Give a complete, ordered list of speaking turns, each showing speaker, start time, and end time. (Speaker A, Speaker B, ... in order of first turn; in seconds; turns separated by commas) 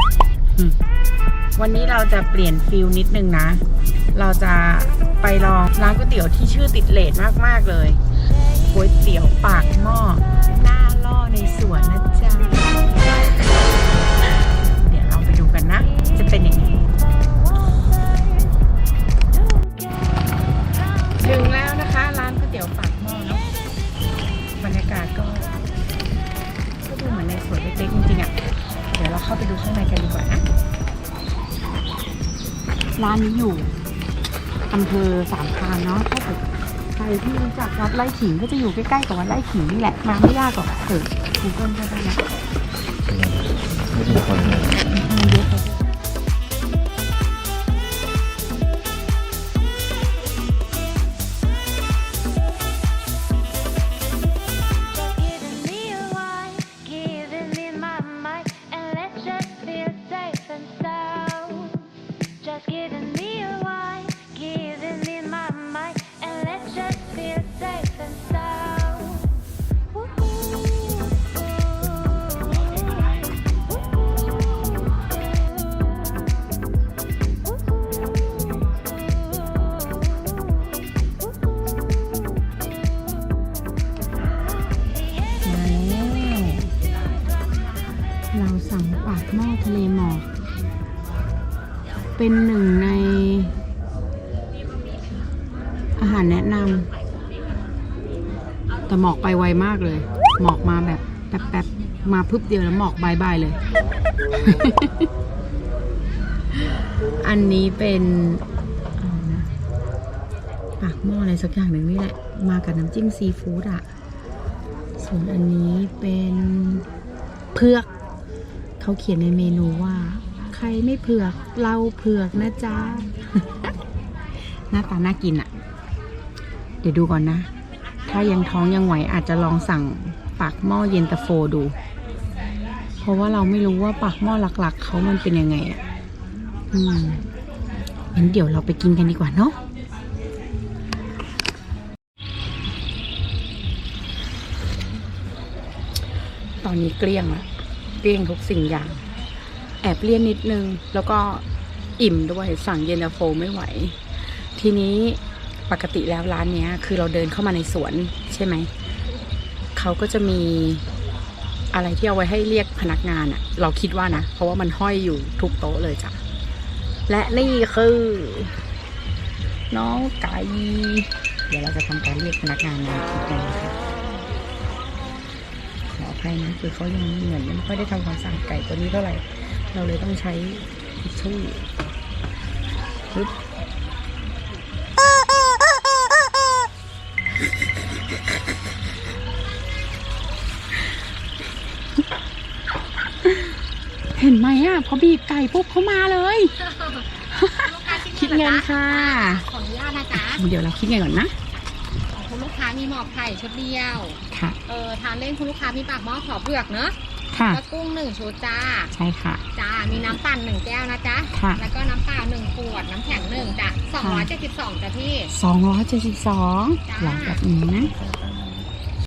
Speaker A: 1.6-8.0, Speaker A: 8.7-12.9, Speaker A: 14.8-16.8, Speaker A: 21.2-23.4, Speaker A: 24.6-25.5, Speaker A: 26.8-28.4, Speaker A: 28.9-30.4, Speaker A: 33.0-33.8, Speaker A: 34.7-36.4, Speaker A: 37.0-42.2, Speaker B: 43.1-44.8, Speaker A: 44.4-45.8, Speaker A: 85.4-86.7, Speaker A: 88.3-90.3, Speaker A: 92.2-93.5, Speaker A: 96.0-96.9, Speaker A: 98.9-103.6, Speaker A: 104.3-105.1, Speaker A: 107.2-108.4, Speaker A: 109.0-109.5, Speaker A: 110.8-113.8, Speaker A: 115.0-116.8, Speaker A: 117.5-117.9, Speaker A: 118.8-123.7, Speaker A: 124.7-125.5, Speaker A: 126.8-127.5, Speaker A: 128.1-131.7, Speaker A: 133.0-135.8, Speaker A: 136.7-137.2, Speaker A: 138.1-139.6, Speaker A: 146.6-147.5, Speaker A: 148.0-149.0, Speaker A: 149.8-151.4, Speaker A: 152.0-158.7, Speaker A: 159.8-160.8, Speaker A: 161.7-166.2, Speaker A: 167.1-168.6, Speaker A: 169.7-173.8, Speaker A: 175.9-181.7, Speaker A: 193.2-193.5, Speaker A: 194.2-196.6, Speaker A: 197.2-199.4, Speaker C: 197.5-200.4, Speaker A: 200.2-201.4, Speaker C: 202.1-207.0, Speaker A: 204.3-204.6, Speaker A: 207.3-207.6, Speaker C: 207.5-208.9, Speaker A: 208.9-209.4, Speaker C: 209.5-215.3, Speaker A: 211.3-211.6, Speaker A: 214.0-214.3, Speaker A: 215.3-217.9, Speaker C: 216.9-217.4, Speaker B: 217.7-218.7